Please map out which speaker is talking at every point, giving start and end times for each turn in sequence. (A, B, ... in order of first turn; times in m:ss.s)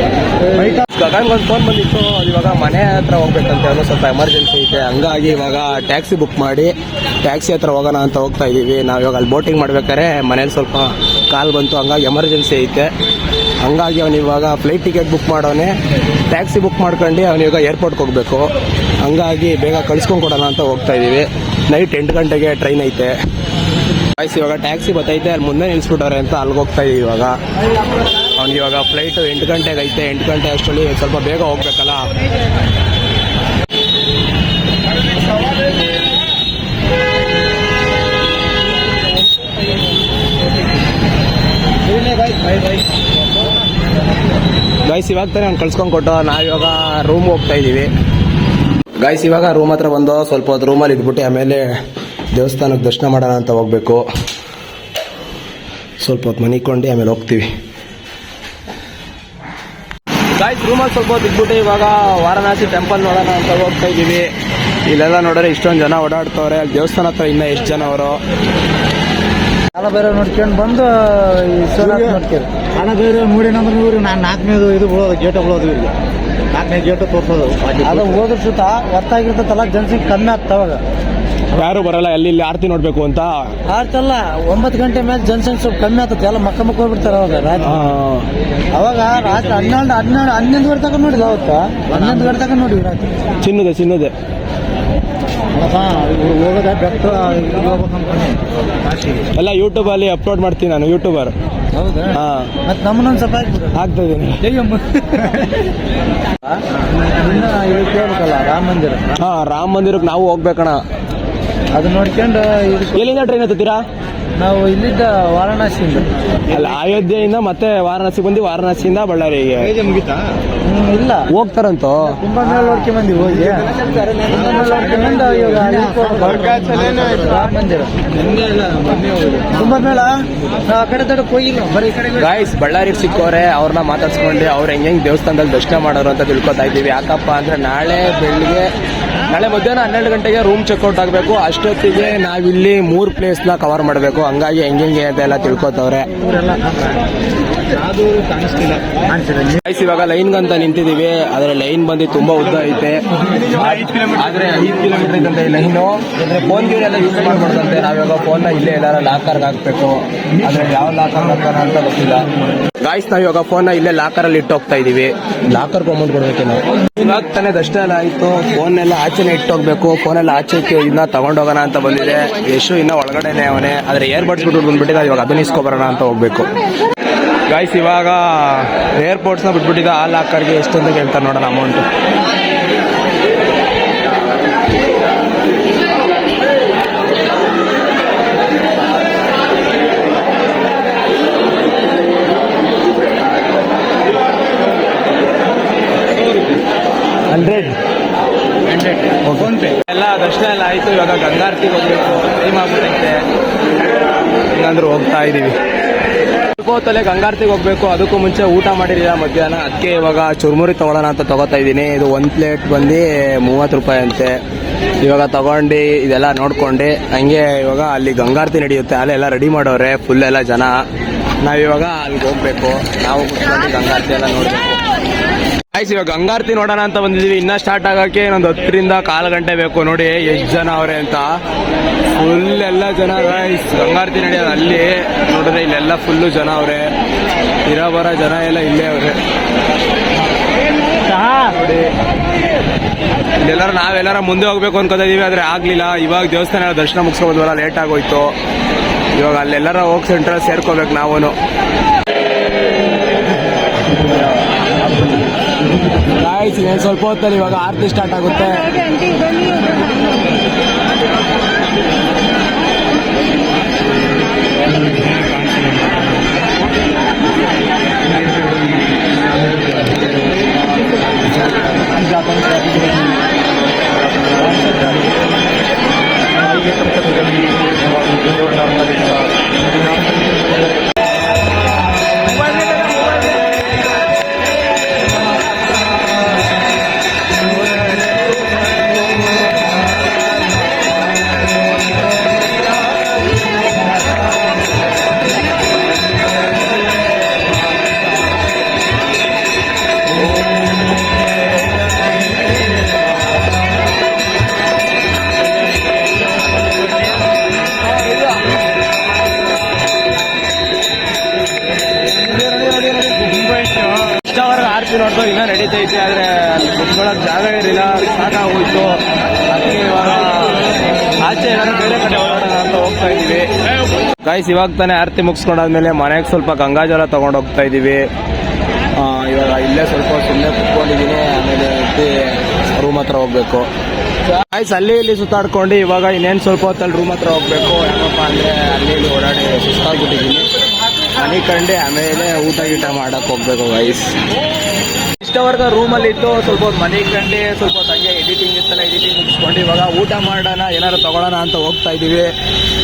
0:00.5-0:00.8 A
0:00.8-0:12.9 B
0:13.6-0:15.8 B
0:16.3-0:18.5 B
0:19.0-0:23.1 B
0:24.2-0:27.4 B
0:28.4-0:32.1 B
0:44.8-0:47.9 B
0:49.0-0:51.7 B
0:52.3-0:54.0 B
0:56.0-0:57.5 B
1:00.4-1:04.3 B
1:04.9-1:08.2 B
1:09.8-1:15.9 A
1:16.6-1:20.8 A
1:21.6-1:23.4 B
1:23.7-1:27.8 A
1:27.6-1:28.3 B
1:28.7-1:33.2 A
1:33.4-1:34.1 B
1:35.5-1:38.4 A
1:39.3-1:41.4 B
1:41.8-1:43.8 A
1:42.1-1:42.5 B
1:43.8-1:44.5 B
1:44.8-1:45.3 A
1:47.0-1:49.0 A
1:49.2-1:50.8 B
1:51.8-1:53.0 A
1:52.9-1:53.8 B
1:54.4-1:56.1 A
1:56.5-1:59.8 B
2:00.6-2:01.3 A
2:01.3-2:02.2 B
2:02.1-2:07.9 A
2:08.5-2:09.0 A
2:09.5-2:12.2 A
2:12.2-2:18.7 B
2:19.3-2:26.1 B
2:26.3-2:26.9 A
2:28.0-2:29.5 A
2:29.6-2:42.3 B
2:42.8-2:56.5 B
2:57.5-3:01.9 B
3:17.3-3:17.8 B
3:19.2-3:23.2 B
3:24.5-3:25.6 B
3:26.6-3:34.4 B
3:35.0-3:40.8 B
3:41.4-3:44.8 B
3:45.7-3:51.4 B
3:52.1-3:56.9 B
3:57.7-3:59.2 B
4:01.1-4:01.9 B
4:03.4-4:08.3 B
4:09.2-4:11.4 B
4:14.0-4:15.2 B
4:16.2-4:19.1 B
4:25.3-4:25.7 B
4:33.6-4:35.1 B
4:36.4-4:39.3 B
4:42.4-4:43.2 B
5:00.2-5:00.6 B
5:07.8-5:08.7 B
5:12.2-5:19.0 B
5:19.5-5:20.7 B
5:21.2-5:23.5 B
5:24.2-5:28.1 B
5:29.0-5:33.7 B
5:34.3-5:40.5 B
5:41.2-5:44.2 B
5:45.2-5:52.3 B